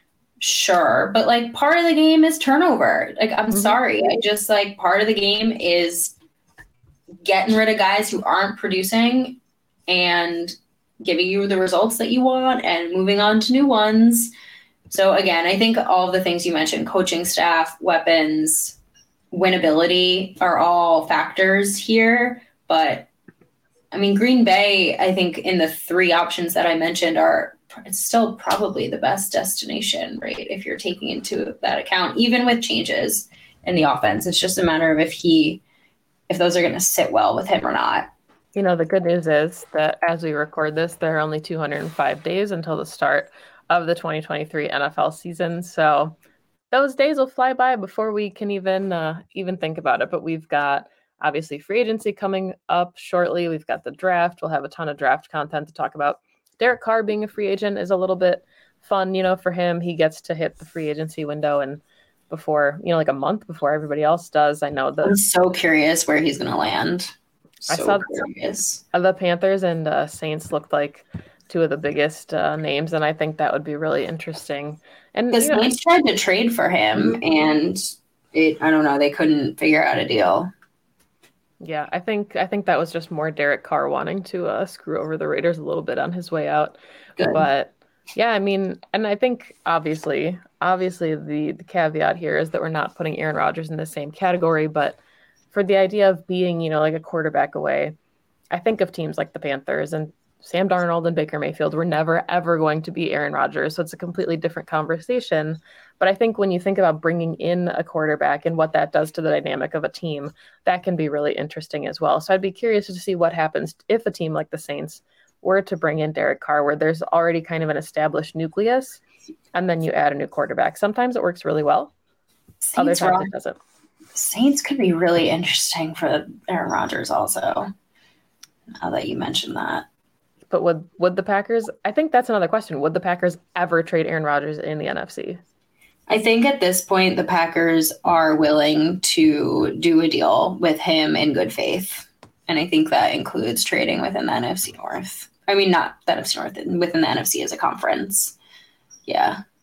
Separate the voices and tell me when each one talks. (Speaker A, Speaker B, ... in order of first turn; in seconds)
Speaker A: 0.4-6.1, 7.2-14.3, 14.9-18.8, 19.3-23.1, 23.9-35.6, 36.3-38.1, 65.0-67.1, 67.6-68.8, 75.3-80.5, 87.2-87.5, 122.6-123.3, 124.1-127.7, 128.8-129.9, 136.1-148.3, 149.1-149.4
Speaker B: 3.5-3.8, 38.5-46.1, 46.7-65.2, 67.7-68.3, 68.9-75.7, 76.9-77.2, 81.6-95.0, 95.5-97.9, 98.5-119.0, 119.5-121.9, 122.8-123.6, 130.5-135.4